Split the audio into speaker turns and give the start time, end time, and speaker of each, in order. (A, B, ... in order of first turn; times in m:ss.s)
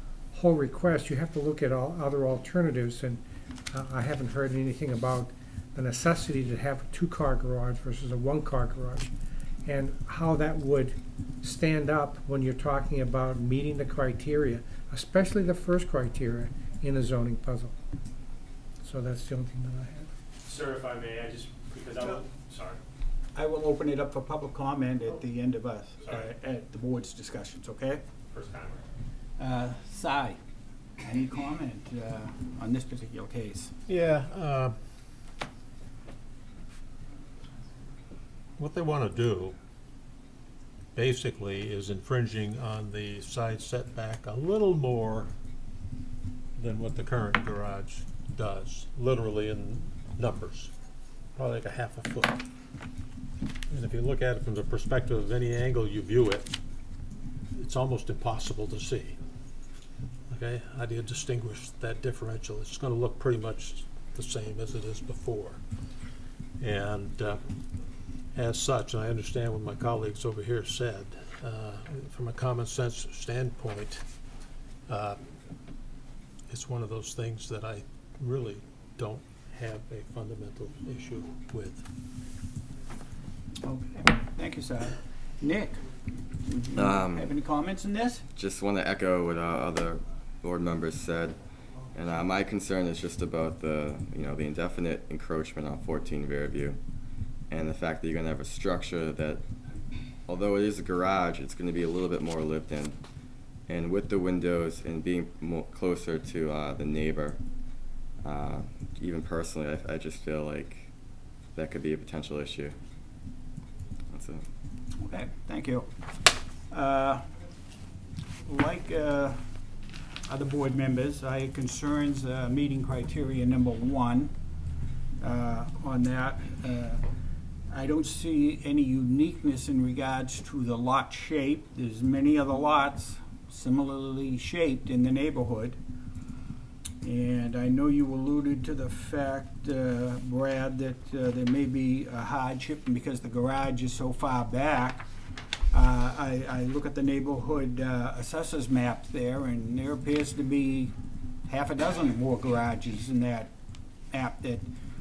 0:00.3-0:09.1 A
0:09.6-0:17.7 A
0:18.8-0:20.1 A
0:20.4-0:22.8 B
0:23.3-0:28.0 C
0:26.0-0:26.3 B
0:28.3-0:28.8 B
0:29.4-0:30.4 C
0:31.0-0:33.7 C
0:33.9-0:34.8 D
0:38.6-0:39.6 D
0:40.9-0:45.3 D
0:46.6-0:50.7 D
0:51.3-0:52.4 D
0:53.7-0:56.5 D
0:57.6-0:59.2 D
1:00.3-1:05.6 D
1:06.6-1:07.4 D
1:08.3-1:14.1 D
1:14.9-1:15.2 D
1:16.5-1:21.8 D
1:23.6-1:25.8 C
1:26.5-1:28.2 C
1:26.7-1:27.3 E
1:28.3-1:36.8 E
1:37.5-1:39.5 E
1:40.2-1:43.0 E
1:43.7-1:50.9 E
1:51.5-1:52.8 E
1:54.1-1:54.5 E
1:55.0-1:55.9 C
1:56.7-1:57.2 C
1:58.4-1:59.4 C
2:00.3-2:04.3 C
2:05.2-2:07.0 C
2:07.7-2:15.8 C
2:17.0-2:25.0 C
2:25.7-2:30.9 C
2:31.5-2:33.5 C
2:34.1-2:34.7 C